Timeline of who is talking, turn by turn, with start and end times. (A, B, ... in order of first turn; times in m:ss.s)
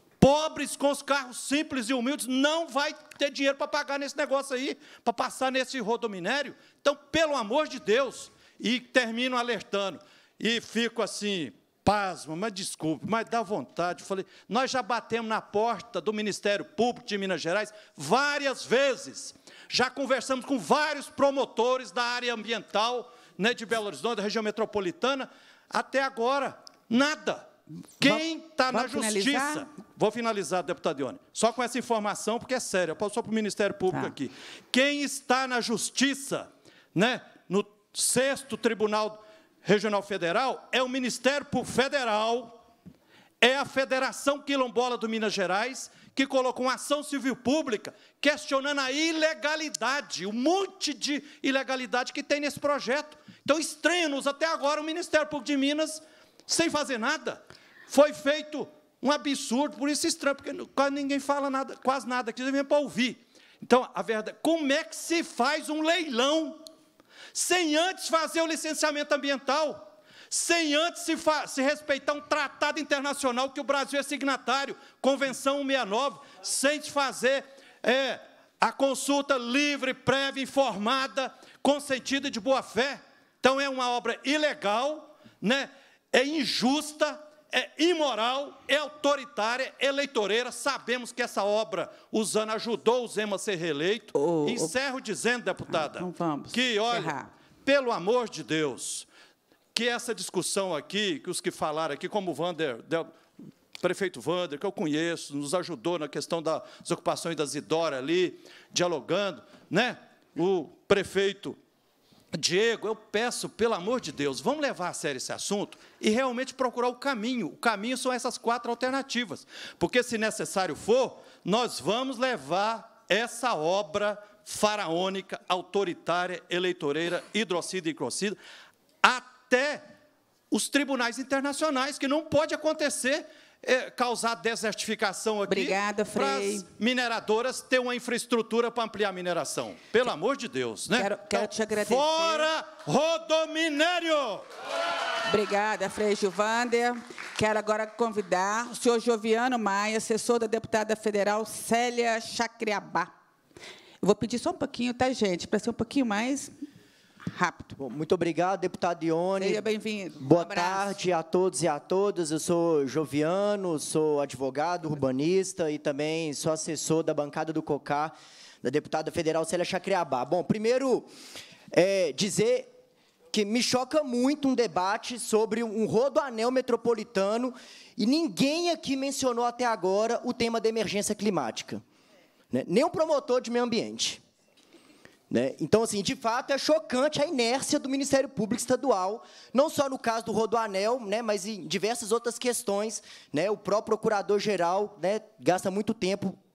0:00.2-0:42.6 A
0:28.0-0:29.6 B
0:43.4-1:06.6 A
1:07.3-1:39.1 A
1:34.1-1:34.7 B
1:35.7-1:37.3 B
1:39.7-1:43.2 A
1:43.8-1:51.6 A
1:52.3-2:08.4 A
2:09.0-2:09.8 A
2:10.5-2:24.4 A
2:15.5-2:16.6 B
2:20.9-2:22.5 B
2:25.3-2:33.1 B
2:34.0-2:36.5 B
2:37.3-2:37.8 B
2:37.8-2:39.6 C
2:39.4-2:40.9 B
2:40.2-2:51.1 C
2:51.7-2:52.7 C
2:53.3-3:01.8 C
3:02.5-3:04.2 C
3:05.3-3:16.4 C